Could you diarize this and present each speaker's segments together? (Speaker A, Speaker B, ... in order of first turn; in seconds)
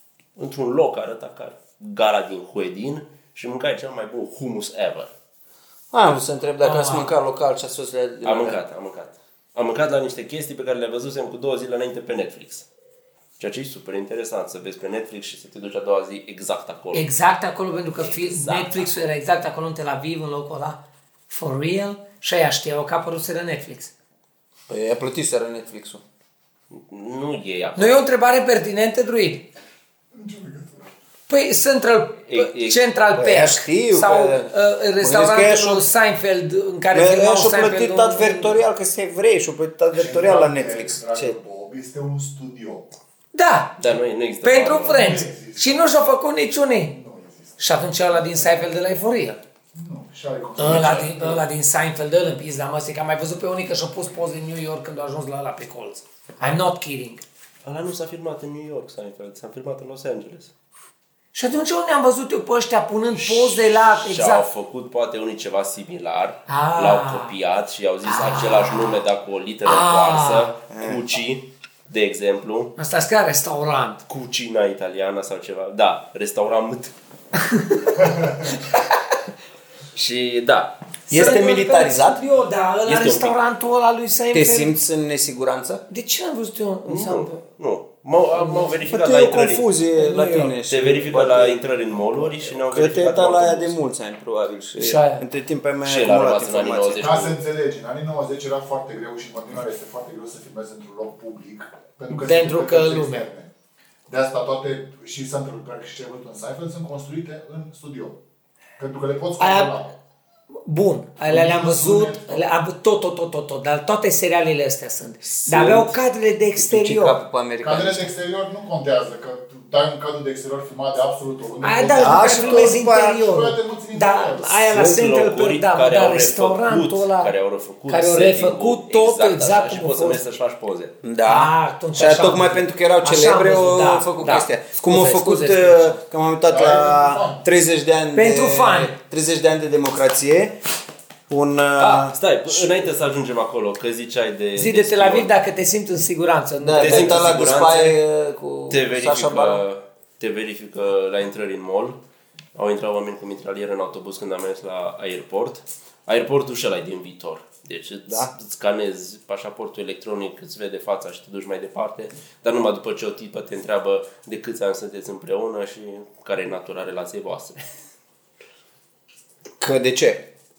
Speaker A: 0.4-5.1, 8.2-12.7, 13.4-17.0, 18.0-18.9, 26.7-28.0, 32.3-32.8, 43.8-45.2, 50.6-51.0, 57.6-60.5, 63.1-72.7, 74.1-76.9, 79.9-80.8, 82.8-83.4, 86.9-89.7, 90.6-93.8, 95.8-97.4, 115.2-115.9, 124.7-131.0, 141.8-145.3, 146.8-148.0, 148.7-152.0, 152.5-167.6
Speaker B: 5.9-8.6, 24.7-26.0, 33.1-35.8, 36.9-41.4, 70.7-71.0, 81.1-82.2, 84.3-85.8, 88.9-91.6, 92.2-97.0, 116.5-118.1, 122.0-123.2, 131.0-140.6, 141.3-142.9, 146.6-149.6, 169.6-170.2
Speaker C: 6.6-7.1, 16.9-23.9, 27.8-29.5, 31.3-38.6, 43.3-43.9, 44.4-47.0, 47.6-49.4, 50.6-57.2, 61.3-64.4, 66.5-67.3, 68.0-69.0, 69.6-70.5, 72.8-74.0, 77.4-78.8, 81.1-84.7, 85.9-87.4, 88.3-88.8, 90.0-90.5, 94.8-95.2, 102.1-103.2, 109.4-109.8, 110.6-117.2, 121.6-127.3, 127.9-130.2, 131.2-136.0, 138.1-138.9, 144.6-147.5
Speaker D: 30.1-30.9, 39.9-42.9, 44.9-45.9, 46.9-48.6, 49.7-51.4, 97.0-103.5, 104.1-108.2, 108.8-110.0, 111.3-112.5, 117.6-124.7, 136.5-137.4